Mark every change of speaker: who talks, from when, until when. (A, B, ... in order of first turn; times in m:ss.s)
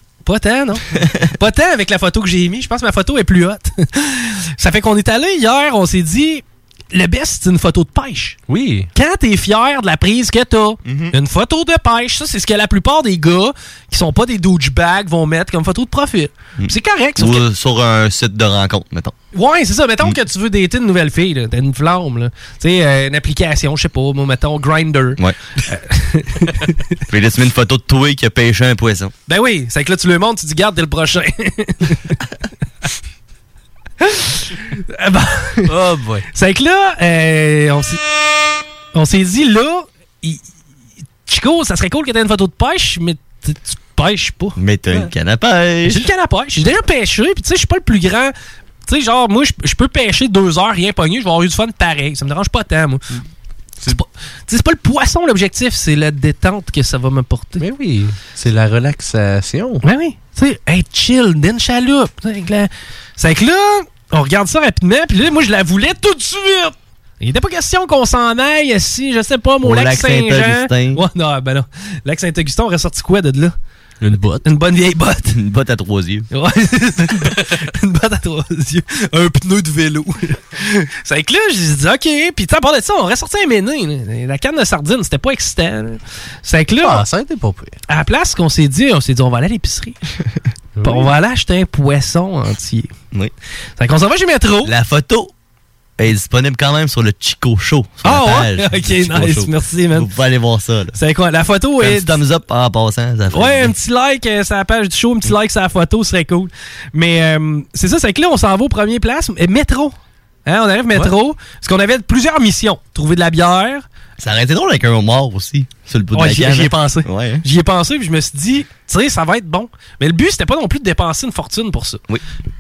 0:00.2-0:00.8 A
0:01.4-0:08.4 A
0:08.5-0:08.9 B
0:08.9-0:17.4 A
0:10.8-0:11.1 C
0:16.6-0:19.1 C
0:19.3-0:26.8 A
0:27.1-0:29.1 C
0:29.3-0:32.2 A
0:34.0-0:35.7 A
0:35.7-0:36.3 B
0:36.3-0:38.0 A
0:38.9-0:40.4 A
0:41.3-0:44.6 A
0:44.6-0:46.1 C
0:45.9-0:48.3 A
0:48.9-0:53.0 A
0:53.9-0:57.6 A
0:57.6-0:59.8 B
0:59.8-1:13.6 A
1:09.6-1:11.0 C
1:14.0-1:14.4 B
1:14.4-1:15.3 A
1:15.3-1:16.3 C
1:16.3-1:27.0 A
1:26.8-1:27.8 B
1:27.9-1:30.0 A
1:30.8-1:31.1 B
1:30.8-1:32.9 A
1:33.8-1:34.7 A
1:34.6-1:35.3 C
1:36.0-1:41.0 C
1:38.0-1:40.1 A
1:41.0-1:42.2 A
1:41.8-1:43.7 C
1:43.3-1:50.0 A
1:50.5-1:53.8 A
1:54.2-1:57.4 C
1:56.1-2:02.0 A